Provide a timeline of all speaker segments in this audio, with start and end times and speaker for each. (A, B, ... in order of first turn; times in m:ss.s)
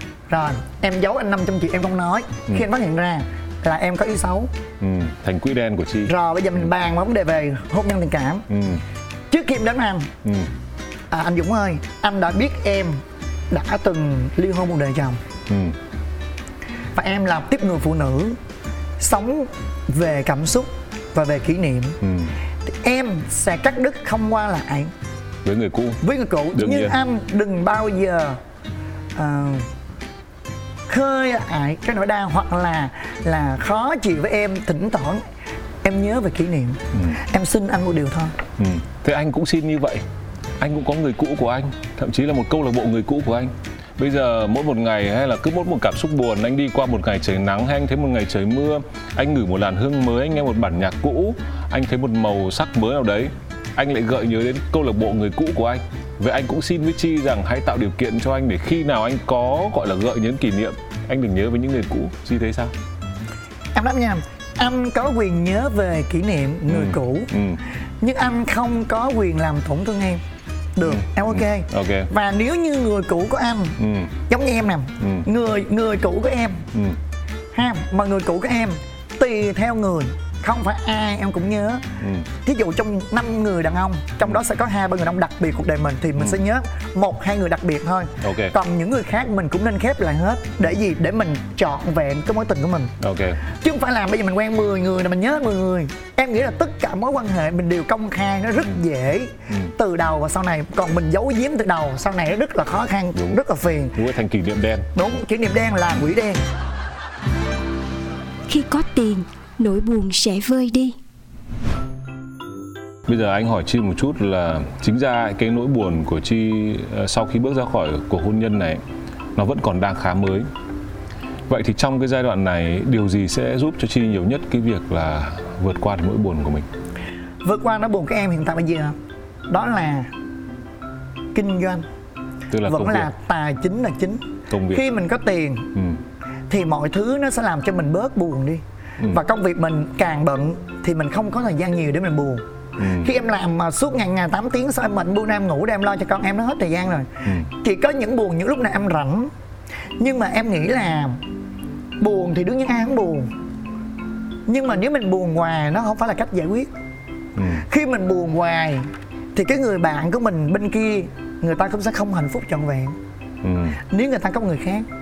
0:00.3-0:04.5 A
0:04.8-0:06.1 B
0:06.1-0:08.4 A
0:08.5-0:08.8 B
0:09.3-0:10.1 A
0:10.2-0:10.5 B
0:11.1-0:15.2 A
0:15.5-0:15.8 B
0:17.0-0:18.4 A
0:19.0-0:22.0 A
0:22.0-0:22.4 B
0:22.7-0:24.9 A
0:25.4-0:26.0 B
0:26.0-0:28.4 A
0:26.6-0:27.0 B
0:29.2-0:29.7 A
0:30.9-0:35.2 A
0:35.8-0:38.4 A
0:37.0-0:37.2 B
0:38.6-0:40.0 B
0:40.6-1:02.7 B
1:03.7-1:07.3 A
1:06.7-1:07.6 B
1:08.0-1:10.2 A
1:10.8-1:13.8 A
1:10.8-1:12.1 B
1:13.8-1:14.1 B
1:14.3-1:16.7 A
1:15.0-1:15.3 B
1:17.5-1:21.8 A
1:22.0-1:22.3 B
1:22.4-1:32.9 A
1:26.2-1:26.4 B
1:28.2-1:28.6 B
1:33.0-1:33.4 B
1:33.5-1:44.0 A
1:44.0-1:44.9 B
1:45.0-1:46.4 A
1:48.5-1:51.0 C
1:53.1-1:58.8 B
1:59.4-2:00.5 B
2:01.5-2:06.7 B
2:07.4-2:09.0 A
2:09.5-2:10.1 A
2:11.3-2:11.9 A
2:12.5-2:13.1 B
2:12.6-2:15.7 A
2:14.5-2:14.8 B
2:15.8-2:16.0 B
2:16.5-2:22.4 A
2:22.8-2:23.1 B
2:23.0-2:27.1 A
2:27.6-2:29.3 A
2:30.0-2:31.2 A
2:32.0-2:33.3 A
2:34.5-2:36.7 A
2:37.4-2:37.6 B
2:37.6-2:43.0 A
2:43.4-2:43.8 B
2:43.8-2:44.9 A